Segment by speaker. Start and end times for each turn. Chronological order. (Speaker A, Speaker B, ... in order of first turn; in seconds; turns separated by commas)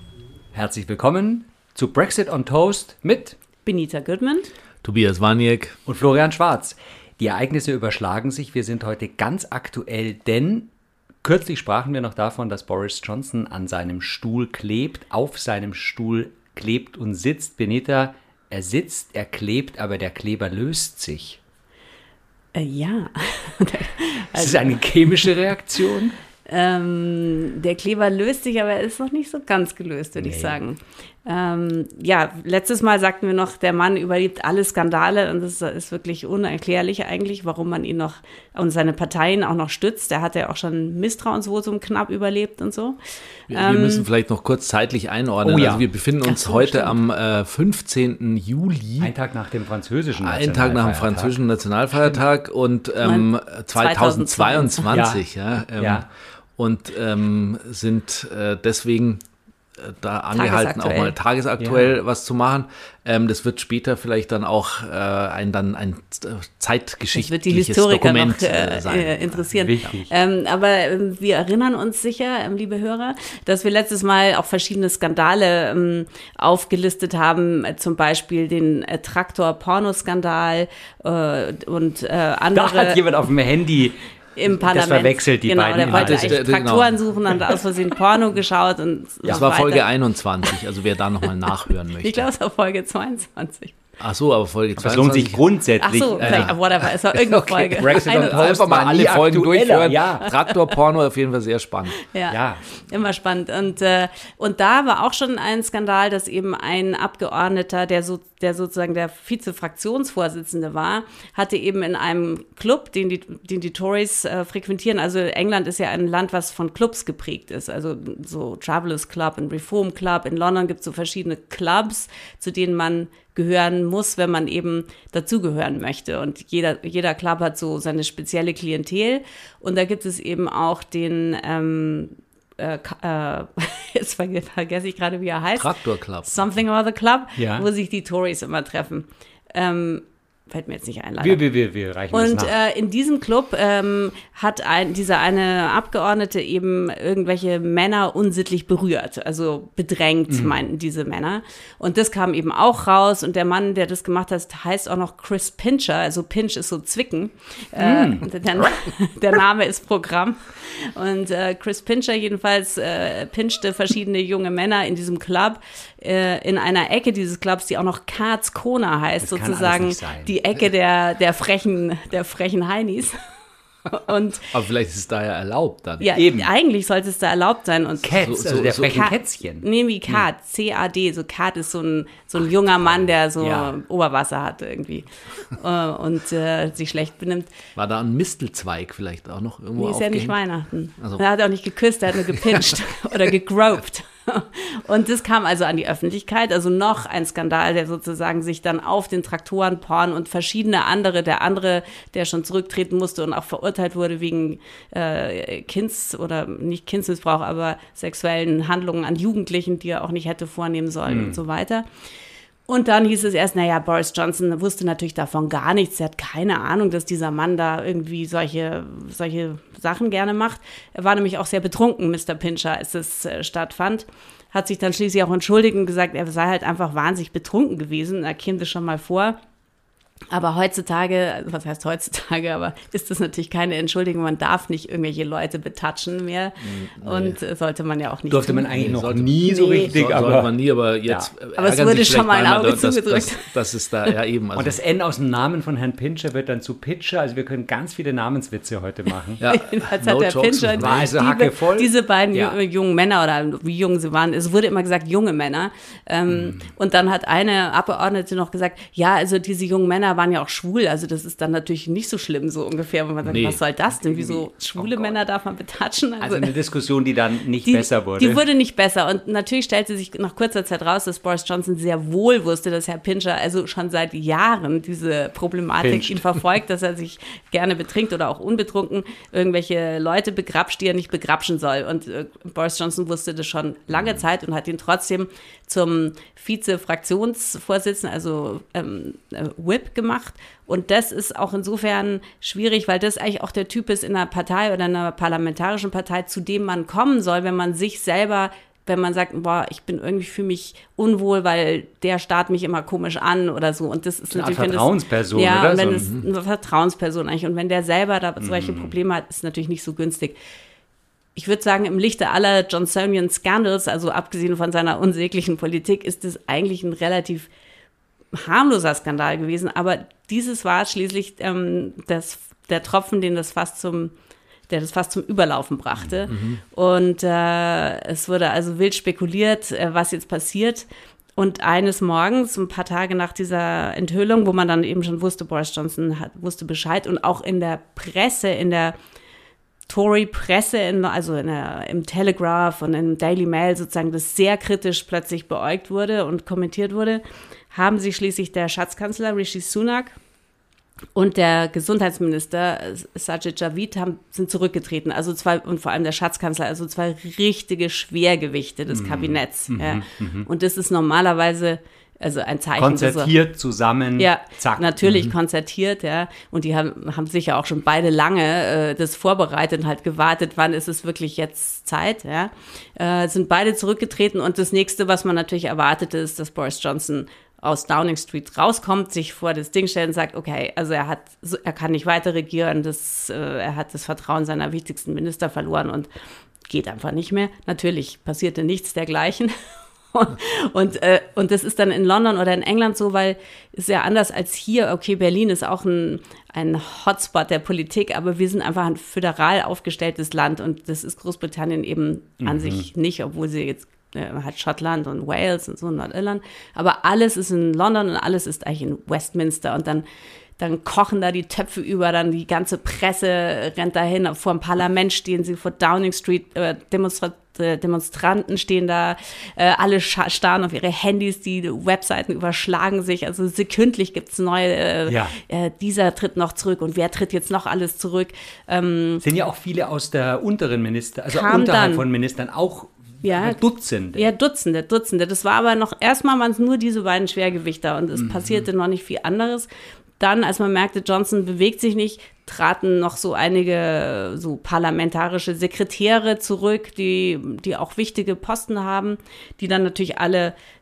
Speaker A: 0.5-3.4, Speaker B: 3.6-4.5, Speaker C: 4.8-5.8, Speaker A: 5.8-10.7, Speaker A: 11.2-21.4, Speaker B: 22.5-24.8, Speaker A: 24.3-26.1, Speaker B: 26.5-43.0, Speaker A: 30.1-30.6, Speaker B: 43.5-44.1, Speaker C: 43.5-49.1, Speaker A: 45.4-45.9, Speaker B: 46.2-47.0, Speaker A: 49.0-51.4, Speaker C: 50.2-59.2, Speaker B: 53.0-54.9, Speaker A: 54.9-55.2, Speaker A: 55.8-56.1, Speaker C: 59.8-69.5, Speaker B: 60.3-61.1, Speaker A: 61.6-61.8, Speaker B: 67.1-83.0, Speaker A: 69.5-70.1, Speaker A: 82.5-84.0, Speaker B: 84.3-89.9, Speaker A: 84.5-86.4, Speaker C: 85.9-87.0, Speaker C: 89.2-92.3, Speaker B: 91.8-93.8, Speaker C: 94.0-95.4, Speaker A: 94.8-96.5, Speaker B: 95.8-98.6, Speaker C: 96.2-102.0, Speaker A: 97.7-100.3, Speaker B: 102.1-135.7, Speaker A: 102.3-102.6, Speaker C: 135.6-136.3, Speaker B: 136.2-141.4, Speaker A: 137.4-137.7, Speaker A: 141.2-142.5, Speaker B: 142.1-173.2, Speaker A: 150.3-150.6, Speaker A: 157.8-158.7, Speaker A: 169.2-170.3, Speaker B: 173.9-174.5, Speaker C: 174.5-176.1, Speaker B: 176.0-187.5, Speaker A: 176.1-176.5, Speaker A: 178.0-180.2, Speaker C: 178.2-179.1, Speaker A: 183.4-183.7, Speaker C: 187.8-190.4, Speaker B: 189.8-211.8, Speaker C: 192.3-192.7, Speaker A: 211.1-211.4, Speaker B: 212.7-229.4, Speaker B: 230.3-238.8, Speaker C: 236.6-237.4, Speaker A: 238.3-240.5, Speaker C: 238.7-244.8, Speaker B: 239.4-239.9, Speaker B: 241.6-244.1, Speaker A: 244.5-249.4, Speaker C: 249.4-251.1, Speaker B: 249.5-266.5, Speaker A: 250.8-252.6, Speaker A: 256.3-256.7, Speaker C: 263.2-263.6, Speaker A: 264.0-265.2, Speaker A: 266.2-268.4, Speaker B: 267.7-310.4, Speaker A: 275.8-276.2, Speaker A: 304.3-306.1, Speaker A: 308.4-308.9, Speaker B: 311.4-317.5, Speaker B: 318.3-324.1, Speaker B: 324.7-338.9, Speaker C: 326.3-326.6, Speaker B: 339.9-350.1, Speaker B: 351.1-363.3, Speaker A: 358.9-360.5, Speaker A: 362.8-364.8, Speaker B: 364.2-386.1, Speaker C: 365.0-365.3, Speaker B: 386.7-389.5, Speaker B: 390.1-410.0, Speaker A: 402.4-402.9, Speaker B: 410.6-429.2, Speaker A: 425.1-425.4, Speaker A: 429.2-434.3, Speaker B: 431.3-432.0, Speaker B: 433.2-439.7, Speaker A: 438.1-438.6, Speaker B: 440.2-450.5